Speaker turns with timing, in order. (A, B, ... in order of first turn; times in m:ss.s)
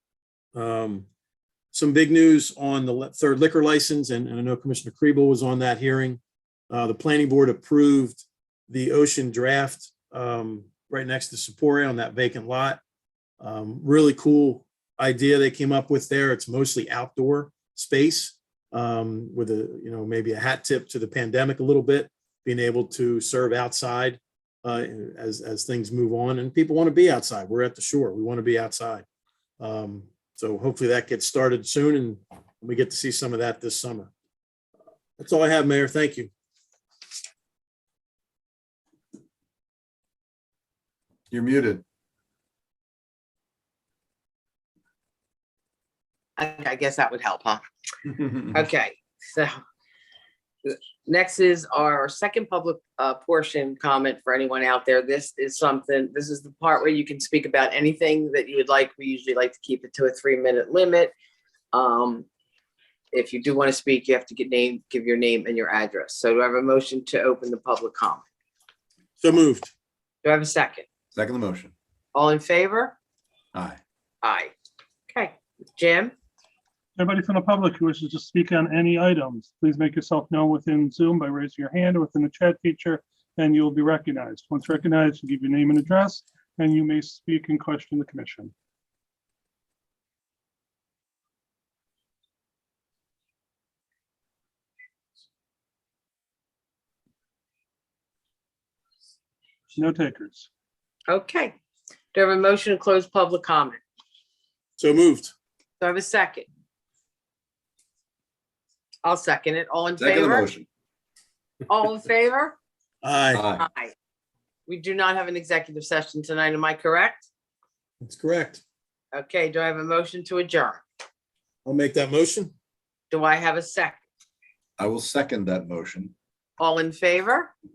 0:00.5-0:01.0 A
0:01.7-0:12.8 A
0:13.4-0:29.0 A
0:29.6-0:34.1 A
0:35.2-0:36.3 A
0:41.3-0:41.8 B
0:46.4-0:47.6 C
0:48.5-0:49.6 C
0:50.6-1:01.1 C
1:01.7-1:02.3 C
1:03.1-1:08.2 C
1:09.2-1:09.7 A
1:10.2-1:10.8 C
1:11.1-1:11.7 B
1:12.1-1:12.9 C
1:13.5-1:13.8 B
1:14.2-1:14.5 C
1:15.1-1:16.1 C
1:17.0-1:28.5 D
1:39.8-1:40.5 D
1:41.1-1:41.5 C
1:42.1-1:43.8 C
1:44.8-1:45.3 A
1:45.8-1:46.4 C
1:49.0-1:50.5 C
1:50.0-1:50.7 B
1:51.7-1:52.6 C
1:53.0-1:53.4 A
1:53.3-1:53.7 B
1:53.6-1:53.9 C
1:54.7-1:57.3 C
1:58.0-1:58.6 A
1:59.1-2:00.8 C
2:01.6-2:02.5 A
2:03.1-2:04.0 C
2:04.8-2:06.1 B
2:06.6-2:07.5 C